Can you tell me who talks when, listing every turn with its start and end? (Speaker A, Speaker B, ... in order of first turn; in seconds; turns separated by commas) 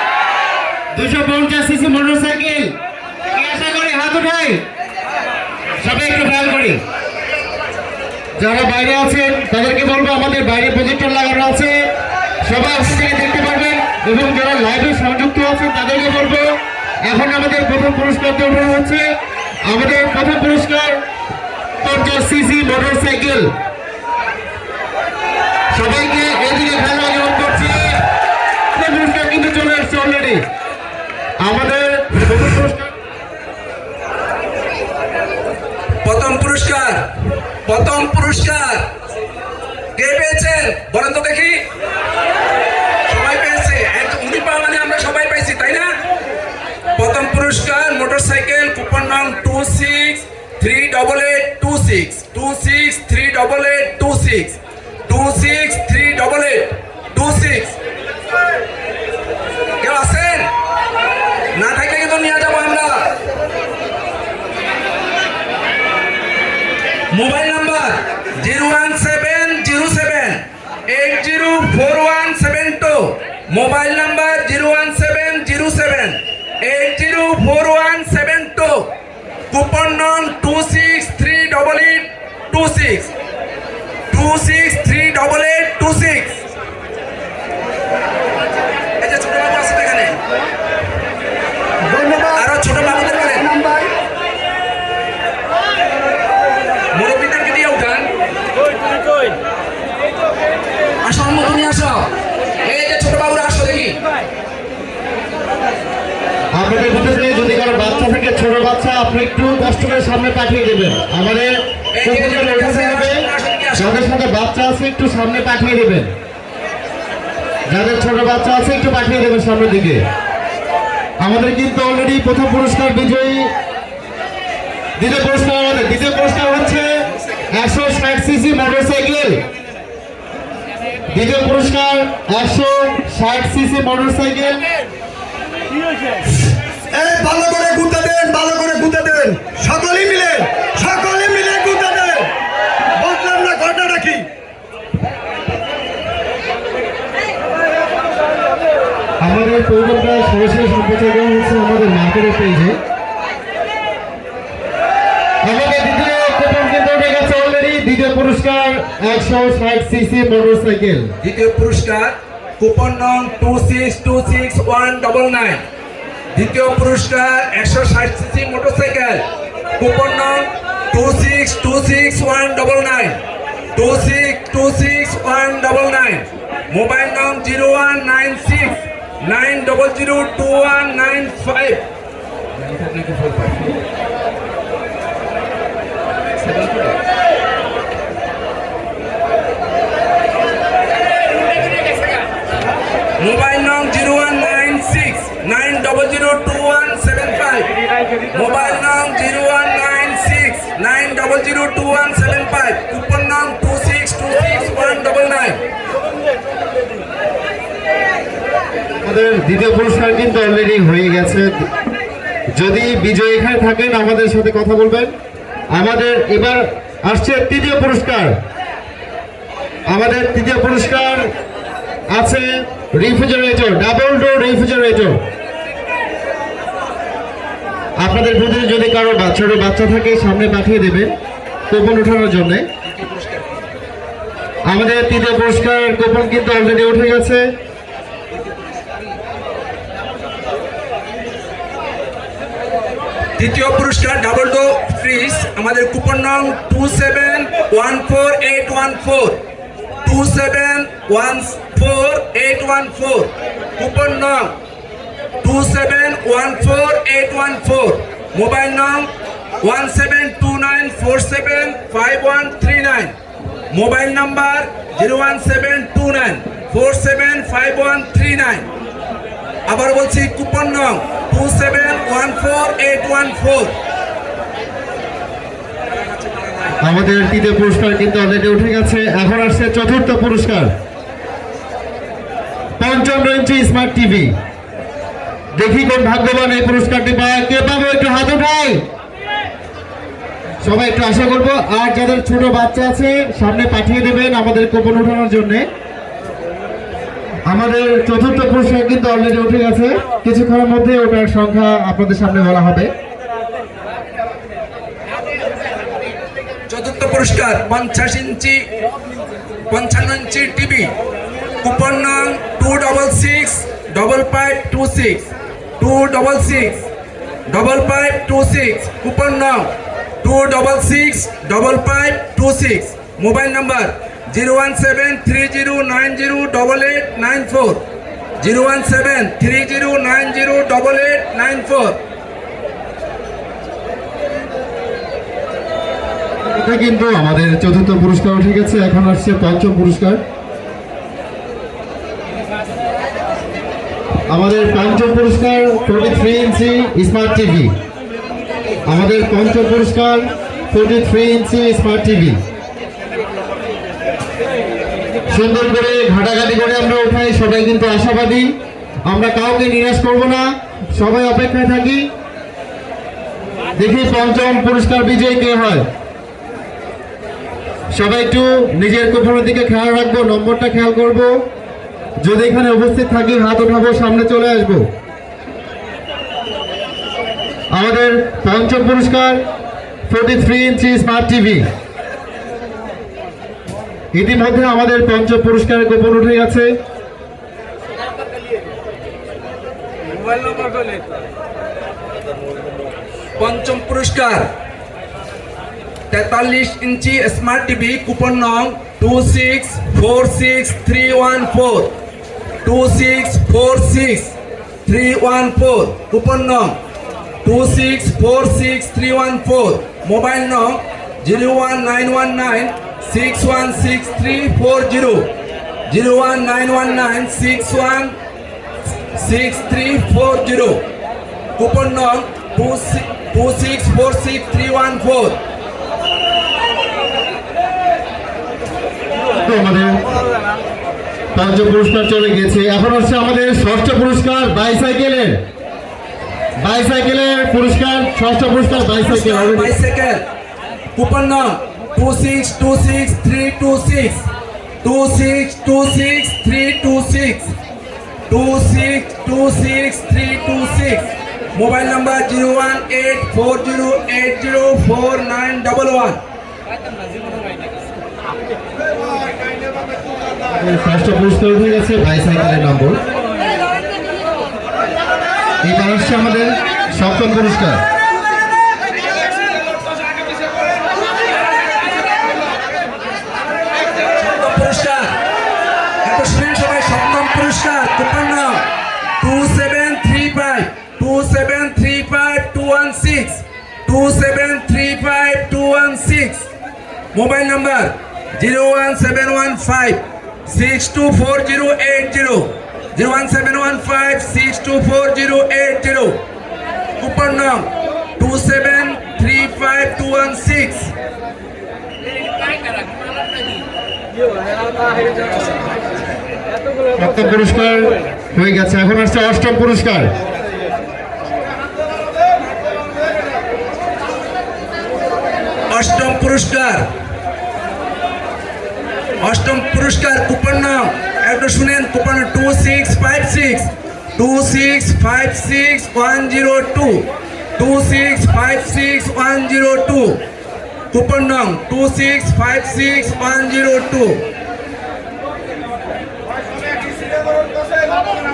Speaker A: 0.9-2.7, Speaker A: 3.3-4.6, Speaker A: 5.8-6.8, Speaker A: 8.4-11.7, Speaker A: 12.4-16.5, Speaker A: 17.0-19.0, Speaker A: 19.6-21.0, Speaker A: 21.8-23.5, Speaker A: 25.7-28.0, Speaker A: 28.7-30.4, Speaker A: 31.4-32.9, Speaker B: 36.0-37.1, Speaker B: 37.6-38.9, Speaker B: 40.0-41.6, Speaker B: 43.1-45.9, Speaker B: 47.0-57.8, Speaker B: 59.8-60.5, Speaker B: 61.5-63.1, Speaker B: 67.1-78.9, Speaker B: 79.5-83.1, Speaker B: 84.1-86.4, Speaker B: 89.0-90.2, Speaker C: 91.8-93.9, Speaker B: 92.3-93.5, Speaker B: 96.9-98.1, Speaker B: 101.0-102.1, Speaker B: 102.7-104.0, Speaker A: 106.5-113.2, Speaker B: 112.0-114.0, Speaker A: 113.8-116.1, Speaker A: 117.7-120.0, Speaker A: 121.2-123.5, Speaker A: 125.0-126.9, Speaker A: 127.5-129.4, Speaker A: 131.1-134.6, Speaker C: 136.9-142.3, Speaker C: 143.0-144.3, Speaker A: 149.2-152.8, Speaker A: 155.4-161.1, Speaker B: 161.2-165.6, Speaker B: 166.3-169.2, Speaker B: 169.8-173.2, Speaker B: 173.7-181.8, Speaker B: 182.5-183.8, Speaker B: 186.4-187.0, Speaker B: 193.2-197.7, Speaker B: 198.3-205.6, Speaker A: 209.0-211.7, Speaker A: 212.5-215.1, Speaker A: 215.7-218.3, Speaker A: 219.9-221.3, Speaker A: 222.1-225.2, Speaker A: 228.0-231.1, Speaker A: 231.7-232.7, Speaker B: 232.9-233.4, Speaker A: 234.7-237.5, Speaker B: 243.4-249.4, Speaker B: 250.0-254.5, Speaker B: 255.4-259.1, Speaker B: 259.6-263.1, Speaker B: 263.7-268.7, Speaker B: 269.7-273.7, Speaker A: 276.8-280.7, Speaker A: 282.8-284.3, Speaker A: 285.5-288.8, Speaker A: 290.6-295.7, Speaker A: 297.5-302.9, Speaker B: 306.7-308.6, Speaker B: 309.7-310.9, Speaker B: 311.6-315.3, Speaker B: 315.8-316.9, Speaker B: 317.5-319.7, Speaker B: 320.2-327.8, Speaker B: 328.4-332.0, Speaker A: 336.4-340.2, Speaker A: 344.3-347.7, Speaker A: 348.9-352.4, Speaker A: 355.3-362.1, Speaker A: 363.8-365.9, Speaker A: 367.9-371.4, Speaker A: 372.2-374.9, Speaker A: 377.7-379.4, Speaker A: 380.1-381.7, Speaker A: 384.1-386.7, Speaker B: 393.4-394.5, Speaker B: 396.1-401.9, Speaker B: 402.6-404.3, Speaker B: 404.9-406.8, Speaker B: 407.4-415.3, Speaker B: 415.9-418.2, Speaker B: 419.1-420.8, Speaker B: 421.6-425.4, Speaker A: 429.4-430.0, Speaker A: 431.3-435.4, Speaker A: 436.6-439.7, Speaker B: 438.8-440.2, Speaker B: 440.9-444.3, Speaker B: 444.8-447.5, Speaker B: 448.3-456.2, Speaker A: 460.5-463.0, Speaker A: 465.6-467.8, Speaker B: 474.2-475.1, Speaker B: 476.0-478.6, Speaker B: 479.2-486.5, Speaker B: 487.1-496.2, Speaker B: 497.0-500.9, Speaker A: 506.9-510.1, Speaker B: 515.7-516.9, Speaker B: 519.2-530.2, Speaker B: 530.9-534.2